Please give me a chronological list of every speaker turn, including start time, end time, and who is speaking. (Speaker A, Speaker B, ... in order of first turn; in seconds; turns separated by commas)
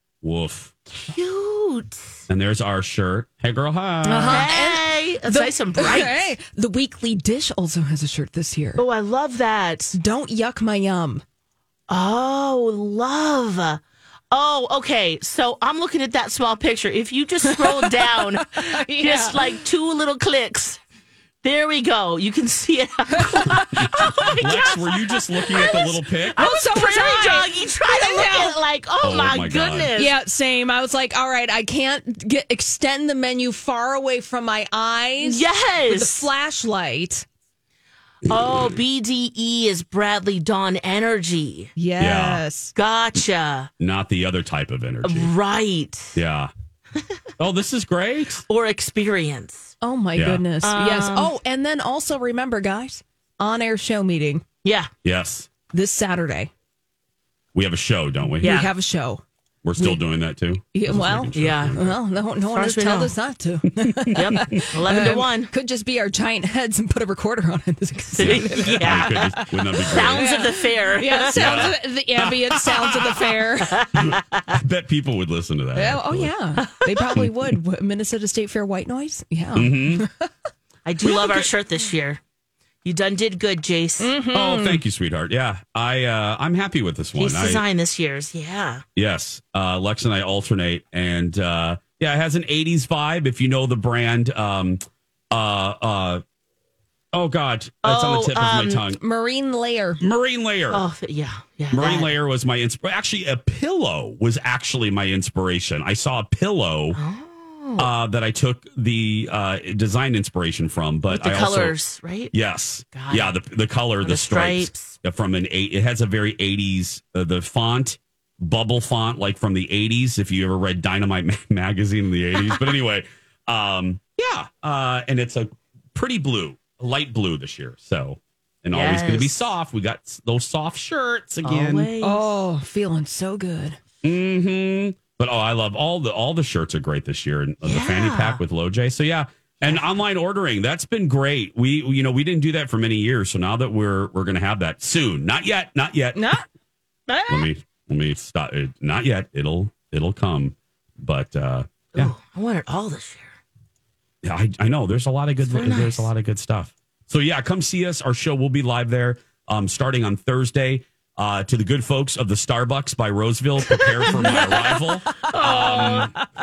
Speaker A: 0.2-0.7, Speaker B: 0.9-2.2, Speaker A: 2.3-4.5, Speaker C: 4.0-8.8, Speaker B: 4.2-6.3, Speaker B: 8.8-9.9, Speaker C: 9.9-11.2, Speaker B: 11.9-13.8, Speaker B: 14.3-20.8, Speaker C: 17.5-19.5, Speaker B: 21.4-30.2, Speaker C: 23.1-24.5, Speaker A: 23.7-26.5, Speaker C: 26.4-28.6, Speaker A: 29.0-29.9, Speaker C: 29.9-37.2, Speaker B: 35.2-36.3, Speaker B: 38.3-41.7, Speaker A: 38.3-38.8, Speaker C: 41.8-42.7, Speaker A: 42.0-42.4, Speaker B: 42.7-43.7, Speaker A: 43.8-45.3, Speaker B: 45.0-46.2, Speaker A: 46.1-46.5, Speaker A: 47.4-48.5, Speaker B: 48.5-49.7, Speaker C: 49.8-54.4, Speaker A: 50.1-50.4, Speaker B: 50.6-51.3, Speaker B: 54.6-54.9, Speaker A: 55.0-55.5, Speaker C: 55.7-56.5, Speaker A: 57.5-58.6, Speaker C: 58.4-59.2, Speaker B: 58.4-58.7, Speaker A: 59.6-62.0, Speaker C: 60.7-73.8, Speaker B: 61.3-61.8, Speaker B: 62.4-63.1, Speaker A: 63.8-64.6, Speaker B: 64.1-65.5, Speaker B: 68.1-71.7, Speaker A: 68.2-70.3, Speaker A: 71.3-76.3, Speaker B: 73.7-74.4, Speaker C: 75.7-80.3, Speaker B: 76.6-77.2, Speaker A: 77.1-77.5, Speaker A: 79.5-80.1, Speaker B: 80.8-82.2, Speaker A: 81.0-81.5, Speaker B: 82.8-84.1, Speaker C: 84.0-84.8, Speaker A: 84.3-87.6, Speaker B: 87.2-88.8, Speaker A: 89.0-96.2, Speaker A: 97.1-99.0, Speaker B: 97.8-98.8, Speaker C: 99.0-100.0, Speaker A: 100.0-100.8, Speaker B: 100.7-102.1, Speaker A: 101.7-107.0, Speaker B: 106.9-107.9, Speaker A: 107.8-111.8, Speaker B: 111.1-112.3, Speaker A: 112.3-131.9, Speaker B: 112.9-113.4, Speaker B: 114.0-114.9, Speaker B: 128.7-129.5, Speaker B: 131.4-132.3, Speaker C: 132.0-133.8, Speaker A: 134.0-146.4, Speaker B: 137.6-138.4, Speaker C: 146.2-146.4, Speaker B: 147.1-147.5, Speaker A: 147.3-152.1, Speaker B: 151.9-153.3, Speaker A: 154.2-166.1, Speaker B: 155.5-156.1, Speaker B: 163.7-166.1